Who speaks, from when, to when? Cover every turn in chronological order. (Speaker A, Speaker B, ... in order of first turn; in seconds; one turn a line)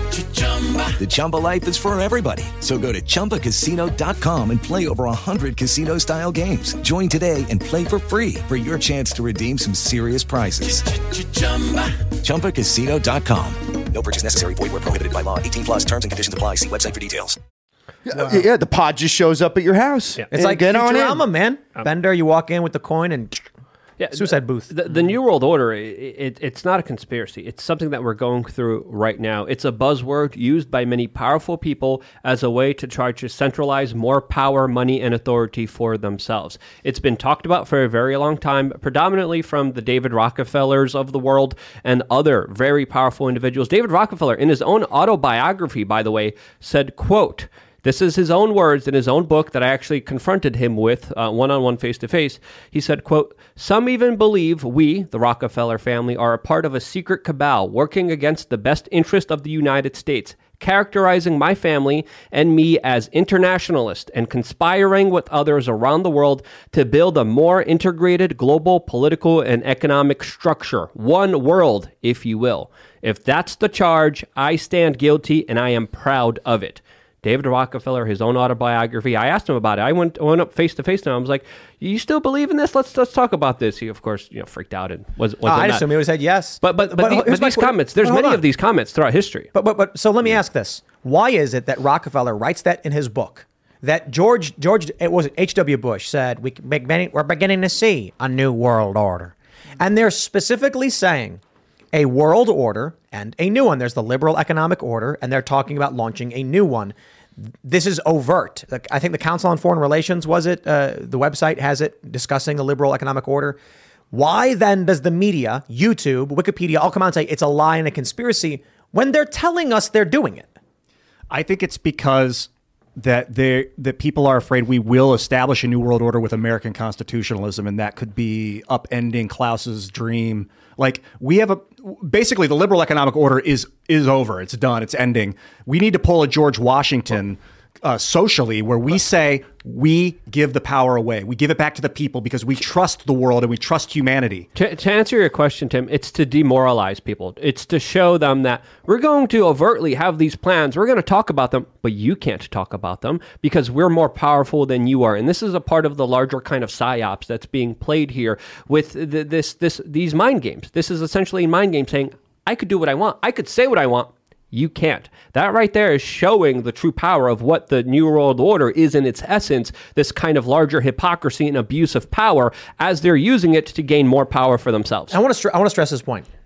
Speaker A: 0.5-17.4
Speaker B: 18.1-21.2
Speaker C: 20.3-23.5
Speaker D: 24.0-85.9
Speaker C: 24.1-24.7
Speaker C: 85.4-88.4
Speaker D: 86.6-89.5
Speaker C: 89.5-101.4
Speaker C: 101.9-113.6
Speaker C: 114.1-120.5
Speaker E: 121.3-144.5
Speaker D: 144.6-175.2
Speaker C: 175.1-176.3